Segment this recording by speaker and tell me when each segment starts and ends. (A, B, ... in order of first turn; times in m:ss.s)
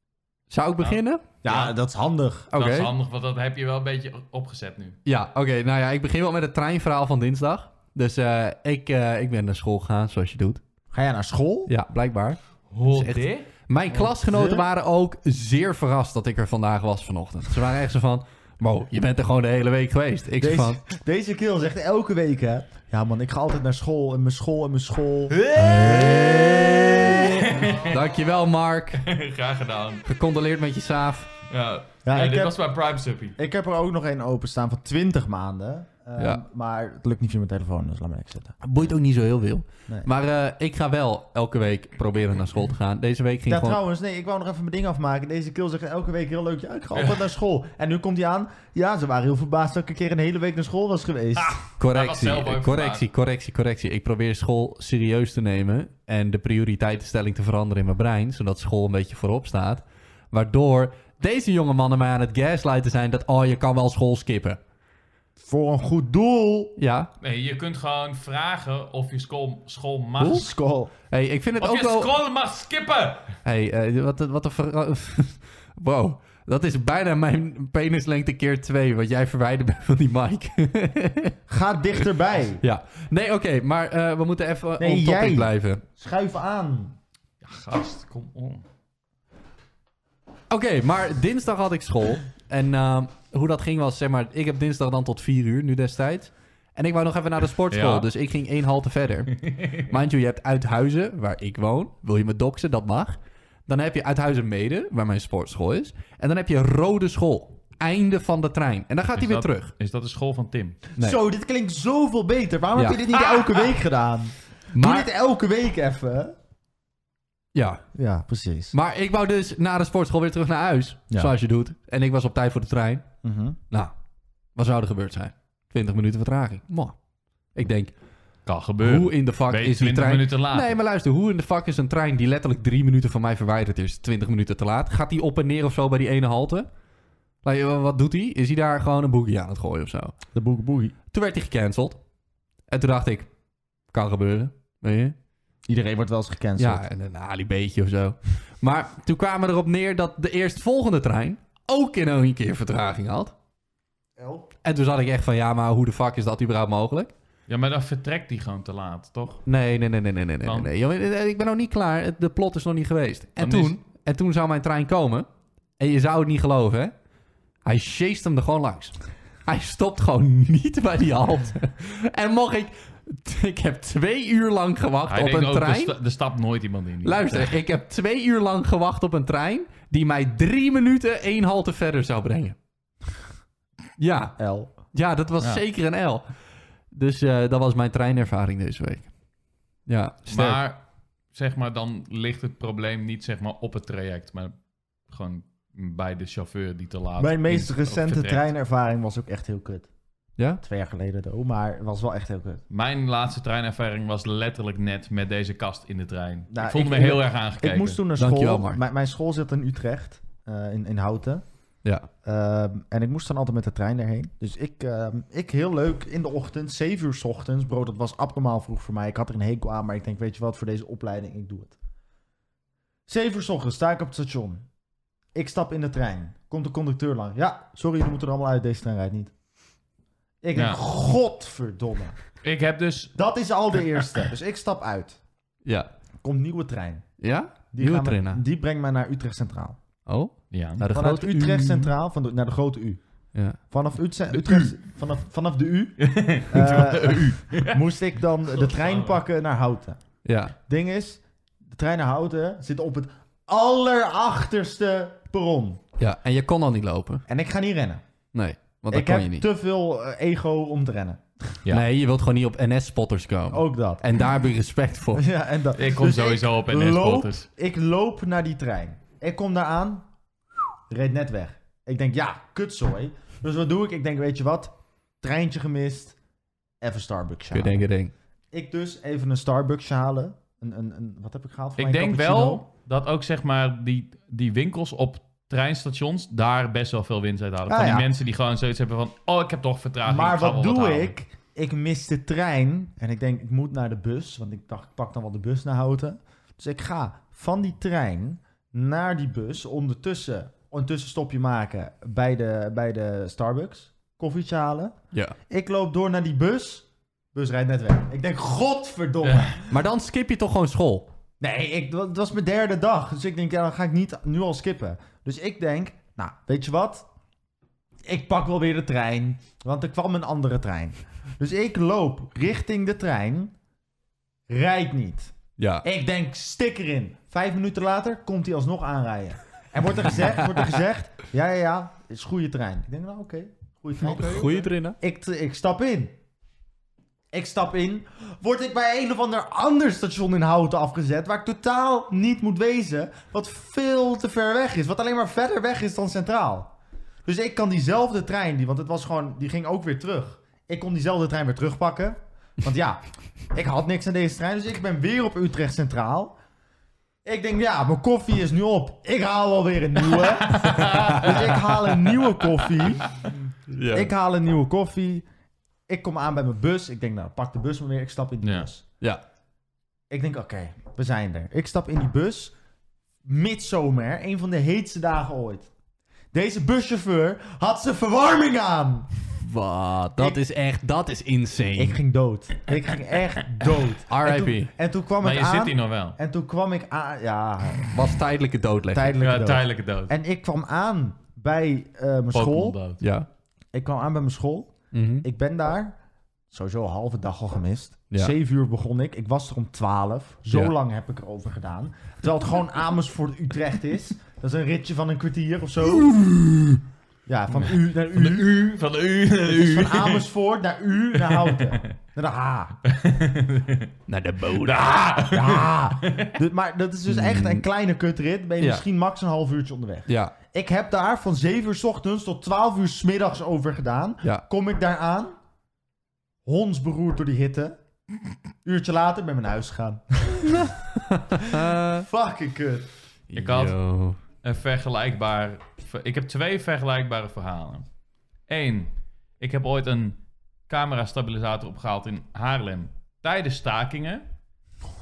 0:00.5-0:01.2 A
0:00.8-0:01.7 B
0:01.4-0:02.5 C
0:02.5-0:02.9 A
0:02.5-0:05.0 B
0:05.1-0:10.6 A
0:10.9-0:11.7 C
0:11.7-0:20.8 A
0:12.7-0:13.5 B
0:14.0-0:14.6 C
0:20.4-0:27.6 C
0:25.3-0:28.2 B
0:25.6-0:29.0 A
0:29.0-0:30.0 B
0:30.1-0:31.3 A
0:31.5-0:33.4 B
0:32.0-0:32.6 C
0:33.4-0:38.6 C
0:38.6-0:43.8 A
0:43.5-0:51.6 C
0:46.9-0:47.3 B
0:51.4-0:53.1 B
0:51.8-1:04.6 A
1:05.4-1:06.8 C
1:06.8-1:07.1 A
1:07.2-1:10.5 B
1:10.2-1:10.9 C
1:11.1-1:12.1 A
1:11.6-1:13.4 B
1:13.4-1:21.4 A
1:21.5-1:22.6 C
1:22.6-1:25.8 A
1:24.8-1:27.0 C
1:27.4-1:28.6 B
1:30.5-1:49.7 A
1:37.7-1:38.1 B
1:39.4-1:39.9 B
1:49.2-1:50.8 B
1:51.0-1:56.4 C
1:52.8-1:53.0 A
1:54.7-1:55.1 A
1:57.6-1:57.8 A
1:57.9-1:58.7 C
1:58.7-2:03.1 A
2:03.2-2:03.6 C
2:04.6-2:07.0 A
2:07.6-2:07.9 A
2:08.5-2:10.8 B
2:08.8-2:16.7 A
2:17.4-2:20.2 A
2:20.3-2:20.9 C
2:21.1-2:22.0 A
2:22.7-2:23.3 A
2:23.9-2:25.2 A
2:25.7-2:26.8 C
2:26.6-2:33.3 A
2:34.2-2:34.5 C
2:34.6-2:37.1 A
2:37.5-2:39.4 B
2:39.5-2:45.2 A
2:40.4-2:40.7 B
2:43.4-2:43.8 B
2:45.8-2:46.9 A
2:47.6-2:55.9 A
2:55.1-2:57.5 B
2:57.0-3:02.6 A
3:04.0-3:06.2 A
3:04.4-3:04.7 C
3:06.9-3:09.1 A
3:09.9-3:10.6 A
3:10.3-3:10.8 B
3:11.3-3:14.5 B
3:15.1-3:18.4 B
3:17.2-3:19.9 C
3:20.6-3:22.6 C
3:22.7-3:28.0 B
3:26.5-3:31.4 C
3:28.2-3:28.8 A
3:32.2-3:41.8 C
3:43.1-3:44.7 C
3:45.3-3:49.3 C
3:50.4-3:52.2 C
3:50.5-3:50.8 B
3:52.4-3:53.1 B
3:53.2-3:55.2 C
3:55.6-3:55.9 A
3:56.2-3:57.0 C
3:57.2-3:58.4 A
3:57.7-3:59.8 C
4:00.1-4:01.9 A
4:00.5-4:00.8 B
4:00.9-4:03.0 C
4:03.6-4:10.0 C
4:04.3-4:04.8 B
4:06.0-4:07.8 B
4:08.6-4:09.2 B
4:10.2-4:10.6 A
4:10.6-4:15.8 C
4:16.0-4:17.2 A
4:17.3-4:18.0 C
4:18.3-4:19.5 A
4:18.9-4:21.2 C
4:21.7-4:25.2 A
4:23.5-4:24.0 C
4:25.1-4:30.1 C
4:25.8-4:27.5 B
4:30.9-4:36.2 C
4:36.8-4:37.8 C
4:37.5-4:38.1 A
4:38.5-4:42.6 C
4:41.8-4:51.1 B
4:47.7-4:48.1 C
4:50.0-5:04.9 C
5:05.5-5:09.6 C
5:09.2-5:09.6 B
5:09.7-5:11.1 A
5:11.4-5:17.1 C
5:18.0-5:23.5 C
5:24.5-5:36.2 C
5:25.6-5:25.9 A
5:34.0-5:35.0 A
5:37.3-5:46.7 C
5:47.2-5:53.0 C
5:53.5-5:56.4 C
5:57.2-6:03.1 C
6:00.1-6:01.5 B
6:00.7-6:02.0 A
6:03.7-6:04.1 A
6:03.9-6:05.2 C
6:05.9-6:08.8 C
6:08.4-6:08.7 B
6:10.1-6:12.5 C
6:13.2-6:15.7 C
6:16.3-6:19.1 C
6:19.4-6:22.0 A
6:21.8-6:28.0 C
6:24.1-6:24.7 A
6:25.2-6:26.2 B
6:27.9-6:29.2 A
6:28.9-6:32.8 C
6:29.2-6:30.1 B
6:32.3-6:33.0 B
6:33.0-6:33.3 A
6:33.7-6:36.0 C
6:34.9-6:35.3 A
6:36.5-6:46.2 C
6:40.5-6:40.7 A
6:46.2-6:46.7 A
6:47.2-6:48.6 C
6:48.1-6:50.2 B
6:49.4-6:52.8 C
6:51.1-6:51.9 B
6:52.8-6:53.9 B
6:54.1-6:55.0 A
6:54.6-6:56.4 B
6:55.2-7:05.3 C
6:57.1-6:57.6 A
7:00.1-7:00.4 A
7:06.4-7:07.8 C
7:08.6-7:10.7 C
7:10.5-7:12.1 A
7:11.4-7:12.9 C
7:13.3-7:14.2 A
7:13.4-7:13.8 B
7:14.4-7:17.9 B
7:18.5-7:20.2 B
7:20.7-7:24.2 B